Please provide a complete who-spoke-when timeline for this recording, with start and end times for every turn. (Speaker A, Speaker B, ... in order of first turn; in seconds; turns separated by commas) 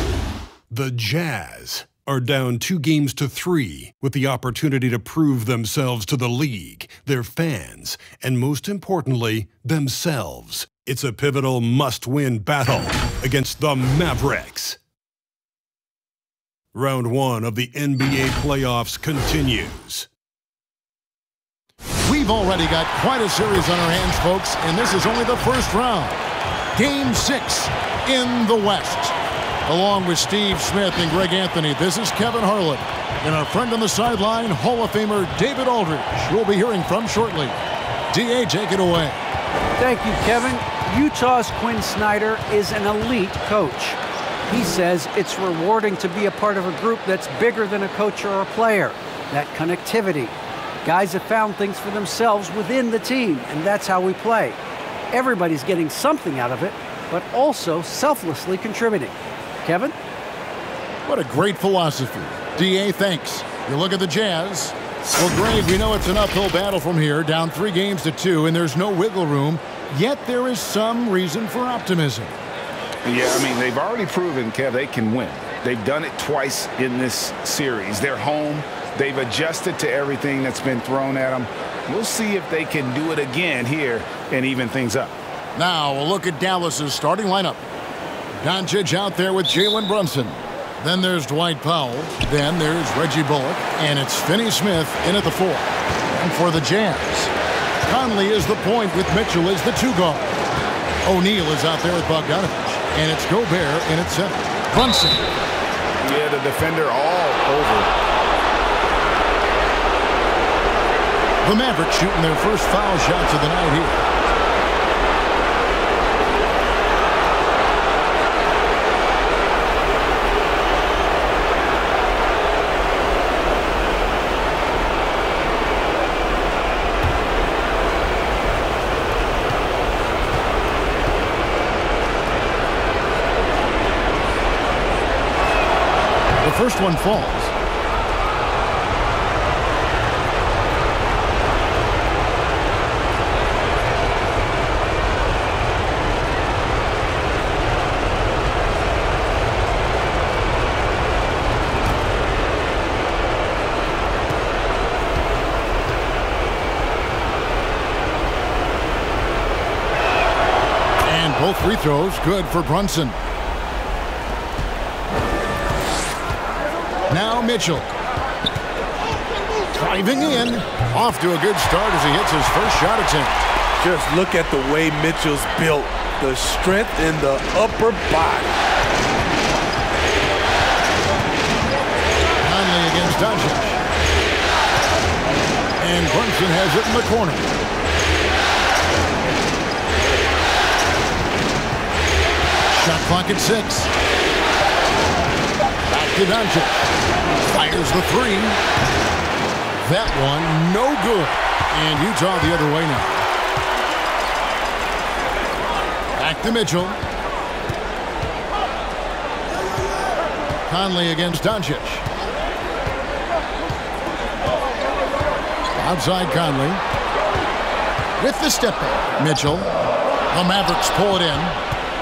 Speaker A: 0.7-14.8, Speaker A: 16.7-20.1, Speaker B: 22.0-26.2, Speaker B: 26.7-37.6, Speaker B: 38.1-39.2, Speaker C: 39.8-44.0, Speaker C: 44.5-50.3, Speaker C: 50.8-54.6, Speaker C: 55.1-60.0, Speaker B: 61.0-72.3, Speaker D: 73.0-85.2, Speaker B: 85.5-87.6, Speaker B: 88.4-97.3, Speaker B: 97.8-100.4, Speaker B: 101.0-105.3, Speaker D: 106.0-107.9, Speaker B: 111.4-114.0, Speaker B: 136.4-137.5, Speaker B: 161.0-163.2, Speaker B: 167.1-167.9, Speaker B: 169.7-173.5, Speaker E: 173.8-178.5, Speaker B: 182.4-183.8, Speaker B: 185.8-187.5, Speaker B: 192.7-193.9, Speaker B: 195.9-196.8, Speaker B: 197.4-198.6, Speaker B: 199.8-203.2, Speaker B: 206.1-207.0, Speaker B: 210.7-212.1, Speaker B: 215.8-216.8, Speaker B: 218.2-219.7, Speaker B: 220.3-221.6